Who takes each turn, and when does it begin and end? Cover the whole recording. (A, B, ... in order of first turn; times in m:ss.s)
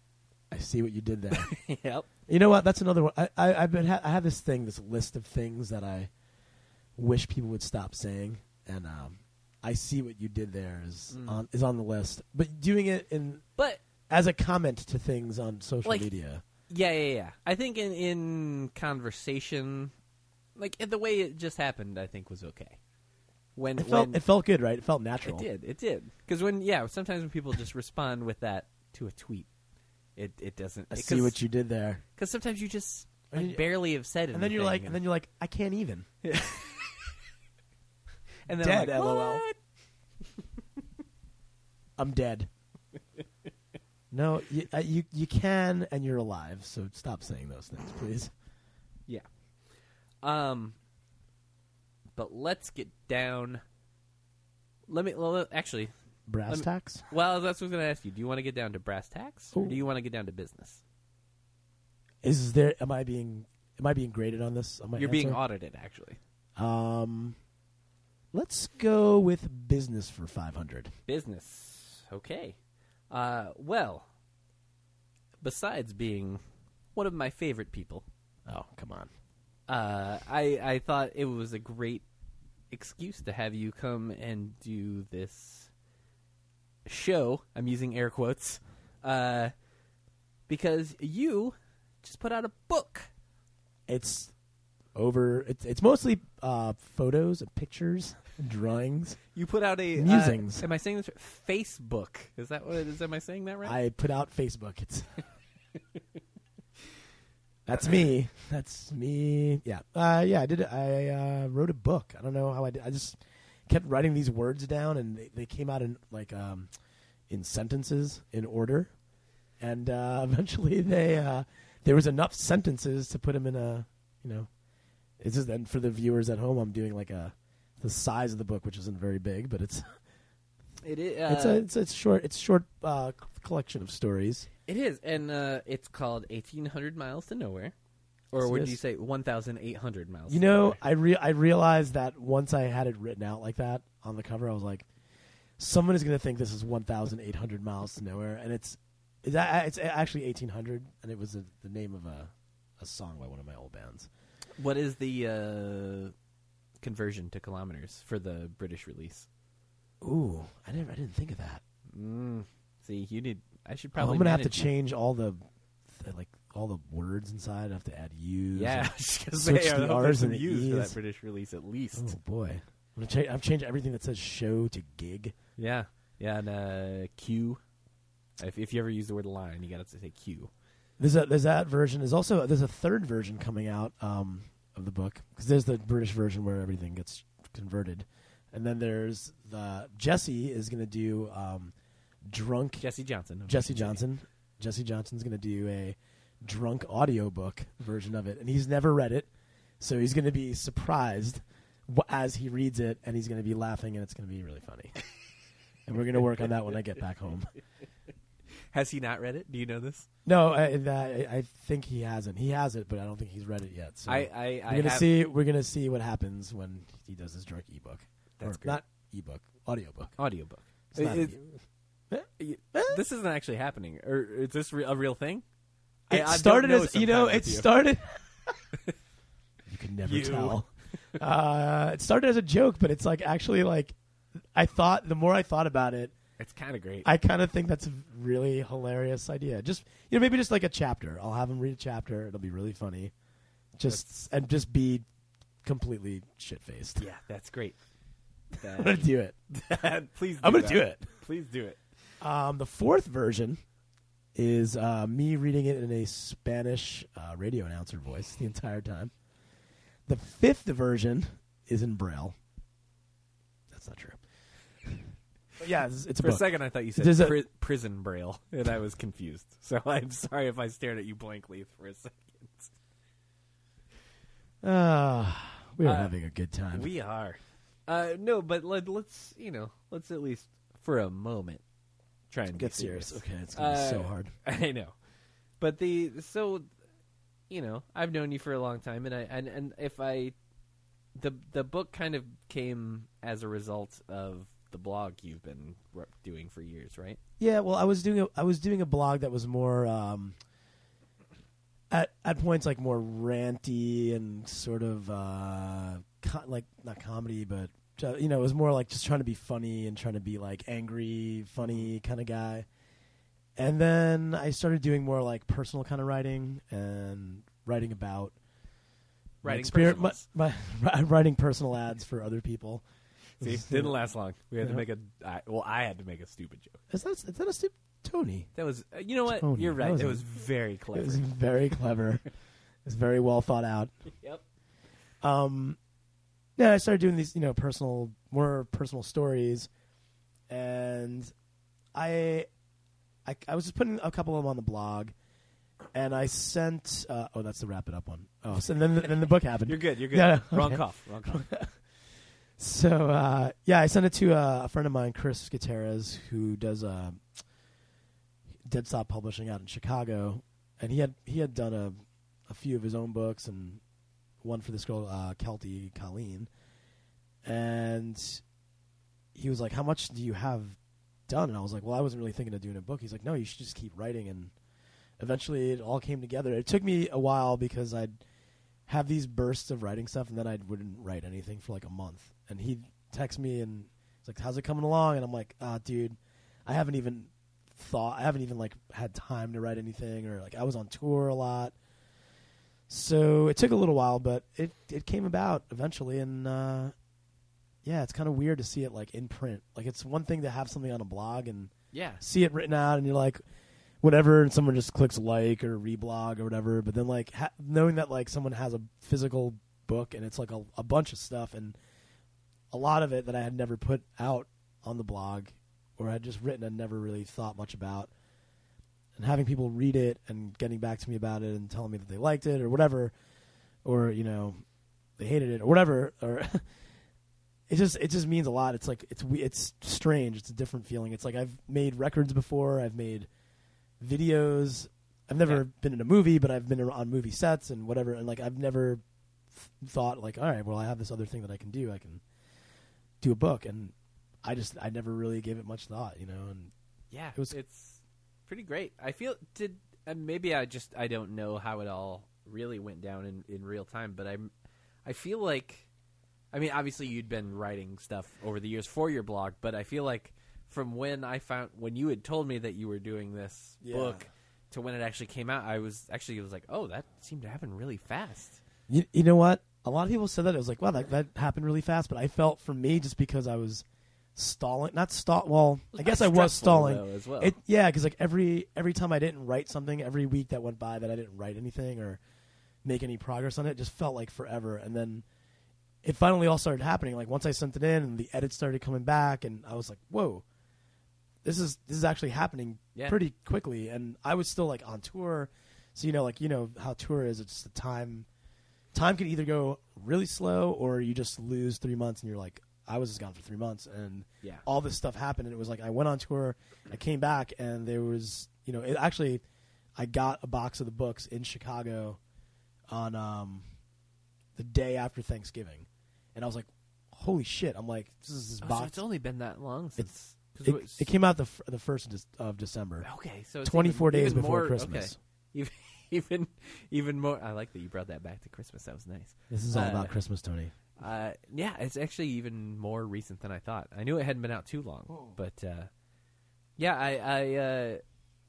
0:00.5-0:01.6 A
0:01.3-0:02.1 B
0:02.3-0:06.1 A
0:07.0-0:13.4 A
0:11.1-0:11.4 B
0:14.1-0:16.4 A
0:15.8-0:16.1 B
0:16.7-0:19.9 B
0:20.6-0:22.8 B
0:23.6-0:24.2 B
0:23.8-0:25.5 A
0:25.2-0:29.5 B
0:30.2-0:31.4 B
0:30.9-0:32.0 A
0:32.2-0:35.0 B
0:33.3-0:33.6 A
0:34.3-0:36.1 A
0:36.2-0:36.9 B
0:38.5-0:39.6 B
0:38.6-0:39.4 A
0:42.0-0:42.5 A
0:44.1-0:48.3 A
0:50.2-0:50.8 B
0:52.2-0:53.6 B
0:54.9-0:55.9 B
0:56.3-0:57.0 A
0:56.5-1:00.8 B
0:59.5-0:59.8 A
1:02.2-1:05.4 A
1:05.0-1:06.2 B
1:06.6-1:07.4 A
1:08.3-1:10.9 A
1:11.1-1:12.6 B
1:13.1-1:14.1 B
1:15.4-1:16.4 B
1:17.0-1:18.0 B
1:18.5-1:19.1 A
1:19.7-1:22.0 B
1:22.7-1:25.7 B
1:26.9-1:29.5 B
1:30.5-1:33.1 B
1:33.9-1:34.3 A
1:35.0-1:39.2 A
1:39.3-1:43.8 B
1:40.0-1:40.6 A
1:43.6-1:45.2 A
1:47.6-1:56.7 A
1:57.3-1:58.9 A
1:59.6-2:04.5 A
2:05.2-2:09.9 A
2:10.8-2:11.6 B
2:11.3-2:14.5 A
2:14.7-2:17.7 B
2:18.3-2:20.8 B
2:18.4-2:18.8 A
2:20.3-2:24.9 A
2:25.6-2:34.1 A
2:34.6-2:36.1 B
2:36.8-2:39.3 B
2:40.0-2:41.6 A
2:41.9-2:44.7 B
2:44.0-2:51.0 A
2:48.6-2:52.2 B
2:52.0-2:55.4 A
2:55.6-2:57.6 B
2:58.4-3:00.5 B
3:01.0-3:11.7 A
3:12.3-3:12.8 A
3:12.8-3:14.0 B
3:13.5-3:19.3 A
3:19.8-3:25.0 A
3:25.9-3:27.5 A
3:28.7-3:30.1 B
3:30.2-3:40.2 A
3:34.1-3:35.1 B
3:38.4-3:38.8 B
3:40.2-3:41.4 B
3:40.9-3:41.6 A
3:42.1-3:43.0 A
3:42.4-3:45.4 B
3:46.1-3:47.7 B
3:46.1-3:48.2 A
3:49.7-3:54.0 A
3:50.0-3:50.6 B
3:54.5-3:56.1 A
3:56.4-3:57.1 B
3:57.0-4:03.1 A
4:03.8-4:05.0 A
4:05.6-4:07.0 A
4:07.0-4:07.8 B
4:08.6-4:11.8 B
4:08.6-4:09.4 A
4:10.4-4:11.1 A
4:12.2-4:13.6 A
4:14.4-4:19.1 A
4:20.1-4:22.4 A
4:23.7-4:24.2 A
4:25.6-4:26.4 A
4:26.2-4:32.7 B
4:27.0-4:27.4 A
4:34.6-4:36.9 A
4:35.8-4:36.1 B
4:36.7-4:41.6 B
4:42.3-4:44.9 B
4:42.6-4:44.3 A
4:45.6-4:46.7 B
4:47.5-4:50.4 B
4:51.2-4:57.2 B
4:57.4-5:00.4 A
5:01.9-5:12.7 A
5:13.6-5:18.4 A
5:19.4-5:20.2 B
5:19.4-5:22.8 A
5:23.4-5:26.8 B
5:23.4-5:24.0 A
5:26.9-5:28.5 A
5:28.6-5:31.2 B
5:29.3-5:30.2 A
5:30.9-5:32.2 A
5:32.8-5:33.9 A
5:35.2-5:35.8 A
5:36.6-5:39.7 A
5:40.5-5:41.3 A
5:41.9-5:42.5 A
5:43.2-5:45.1 A
5:45.9-5:51.8 A
5:49.6-5:51.4 B
5:52.6-5:57.2 A
5:58.6-6:02.0 A
6:02.5-6:03.8 A
6:04.4-6:06.5 A
6:07.4-6:08.4 A
6:09.4-6:14.5 A
6:15.2-6:18.1 A
6:18.9-6:31.8 A
6:32.9-6:36.9 A
6:37.8-6:43.4 A
6:41.9-6:42.2 B
6:44.0-6:51.8 A
6:52.7-6:58.1 A
6:59.2-7:03.1 A
7:03.8-7:04.6 A
7:05.2-7:06.6 A
7:07.7-7:13.3 A
7:14.0-7:19.0 A
7:19.5-7:22.2 A
7:23.2-7:26.7 A
7:27.1-7:34.5 B
7:35.0-7:35.9 B
7:36.5-7:48.6 B
7:43.8-7:44.2 A
7:48.9-7:53.8 A
7:54.4-8:02.2 A
7:56.0-7:57.6 B
8:02.8-8:05.2 A
8:06.0-8:10.4 A
8:11.4-8:18.3 A
8:18.9-8:29.4 A
8:30.0-8:32.2 A
8:32.9-8:33.6 A
8:34.6-8:39.0 A
8:38.6-8:41.1 B
8:40.6-8:43.1 A
8:43.0-8:50.1 B
8:43.6-8:45.2 A
8:49.5-8:50.7 A
8:51.0-8:55.9 B
8:56.8-8:58.0 B